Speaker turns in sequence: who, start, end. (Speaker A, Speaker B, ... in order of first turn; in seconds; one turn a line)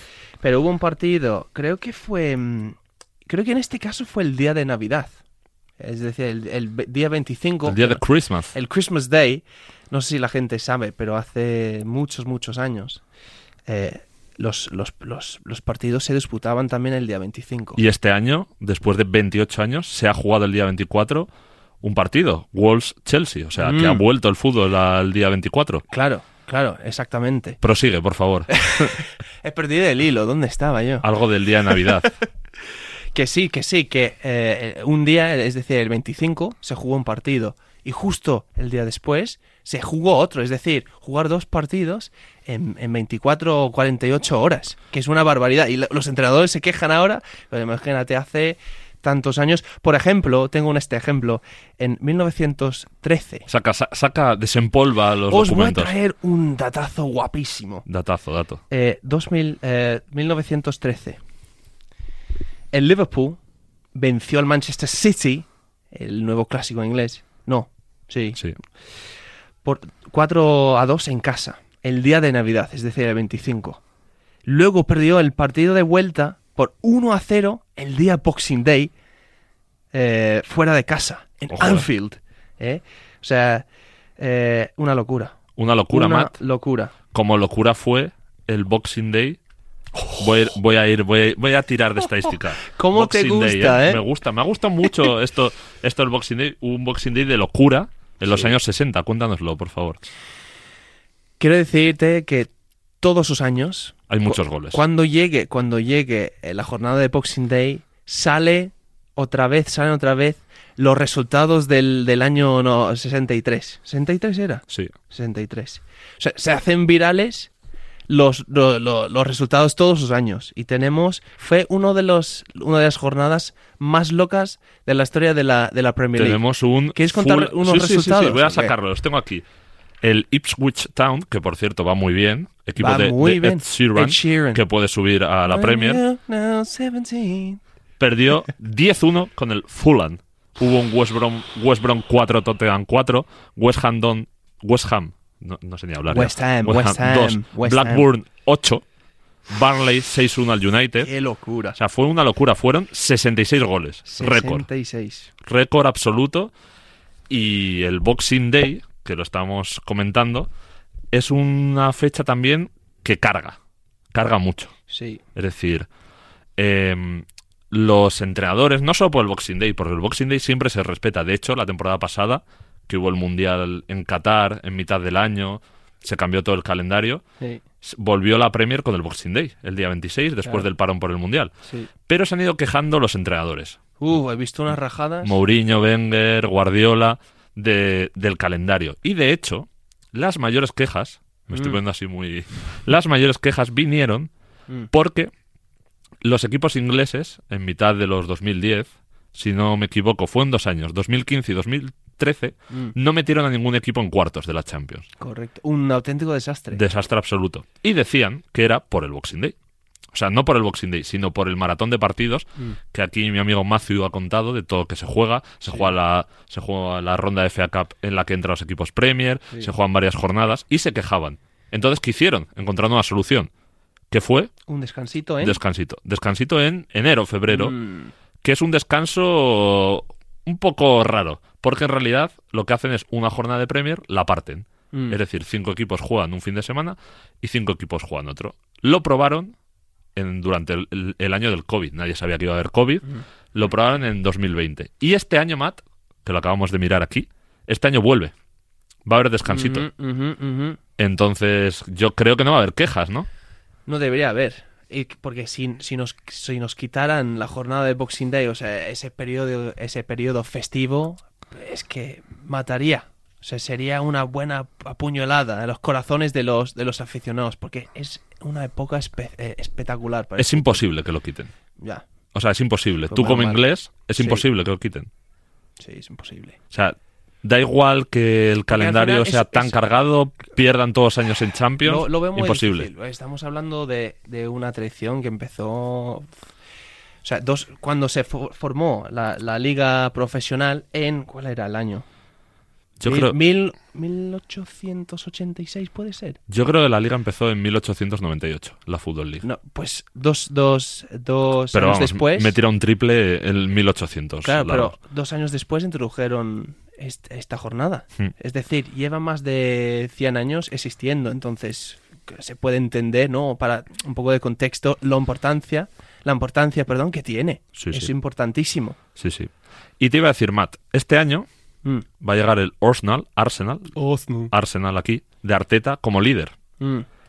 Speaker A: 0.4-5.1
Speaker A: 5.8-8.0
Speaker B: 7.7-8.5
Speaker A: 8.5-13.0
Speaker A: 13.7-17.8
Speaker B: 17.8-21.3
Speaker B: 21.8-25.8
Speaker A: 23.6-24.0
Speaker A: 25.9-27.6
Speaker B: 27.6-29.0
Speaker A: 28.5-31.1
Speaker B: 31.0-32.1
Speaker A: 31.8-32.1
Speaker A: 33.1-53.5
Speaker B: 53.5-55.9
Speaker A: 55.3-57.9
Speaker B: 57.9-58.6
Speaker A: 58.7-61.2
Speaker A: 62.7-63.4
Speaker A: 63.9-68.4
Speaker A: 69.6-73.8
Speaker A: 74.5-78.9
Speaker A: 79.9-83.7
Speaker B: 81.5-81.8
Speaker A: 84.2-85.3
Speaker B: 85.6-86.3
Speaker A: 85.9-86.9
Speaker B: 87.1-89.4
Speaker A: 90.0-90.5
Speaker B: 90.2-100.1
Speaker A: 92.2-94.0
Speaker A: 98.3-98.5
Speaker A: 101.4-102.5
Speaker A: 103.0-117.5
Speaker B: 104.1-104.8
Speaker A: 118.1-126.4
Speaker B: 126.2-129.4
Speaker A: 126.9-128.7
Speaker B: 130.0-136.0
Speaker A: 132.8-134.6
Speaker A: 135.4-137.6
Speaker B: 138.0-148.8
Speaker A: 146.1-148.1
Speaker B: 149.5-151.1
Speaker A: 151.0-151.8
Speaker B: 151.8-154.6
Speaker A: 154.1-155.3
Speaker B: 155.4-156.5
Speaker B: 157.3-160.5
Speaker B: 161.1-163.6
Speaker B: 164.1-164.7
Speaker A: 164.9-165.2
Speaker B: 165.3-165.9
Speaker B: 166.6-177.2
Speaker B: 177.8-181.5
Speaker A: 181.7-181.9
Speaker B: 182.1-183.8
Speaker A: 184.0-185.4
Speaker B: 185.2-194.3
Speaker A: 191.5-191.8
Speaker B: 194.9-195.3
Speaker B: 196.2-205.1
Speaker A: 202.7-202.9
Speaker A: 205.2-206.8
Speaker B: 206.7-209.5
Speaker B: 210.1-223.5
Speaker B: 224.1-224.5
Speaker A: 224.7-225.6
Speaker B: 225.4-227.8
Speaker A: 227.5-228.1
Speaker B: 228.4-239.5
Speaker A: 234.9-235.2
Speaker B: 240.2-248.3
Speaker B: 249.1-249.8
Speaker A: 249.5-250.8
Speaker B: 251.0-253.3
Speaker A: 253.9-270.8
Speaker B: 270.4-271.5
Speaker A: 271.8-272.0
Speaker B: 272.3-275.1
Speaker A: 273.1-273.6
Speaker A: 274.2-274.4
Speaker A: 275.8-276.6
Speaker B: 276.7-282.9
Speaker A: 278.7-279.9
Speaker A: 281.8-286.3
Speaker A: 287.2-292.0
Speaker B: 293.0-293.4
Speaker A: 293.0-296.4
Speaker B: 296.5-299.4
Speaker A: 299.4-302.6
Speaker B: 301.7-304.9
Speaker A: 304.4-319.0
Speaker B: 317.8-318.1
Speaker B: 319.1-321.5
Speaker B: 322.2-323.9
Speaker A: 323.9-324.5
Speaker B: 324.5-326.5
Speaker A: 326.8-327.1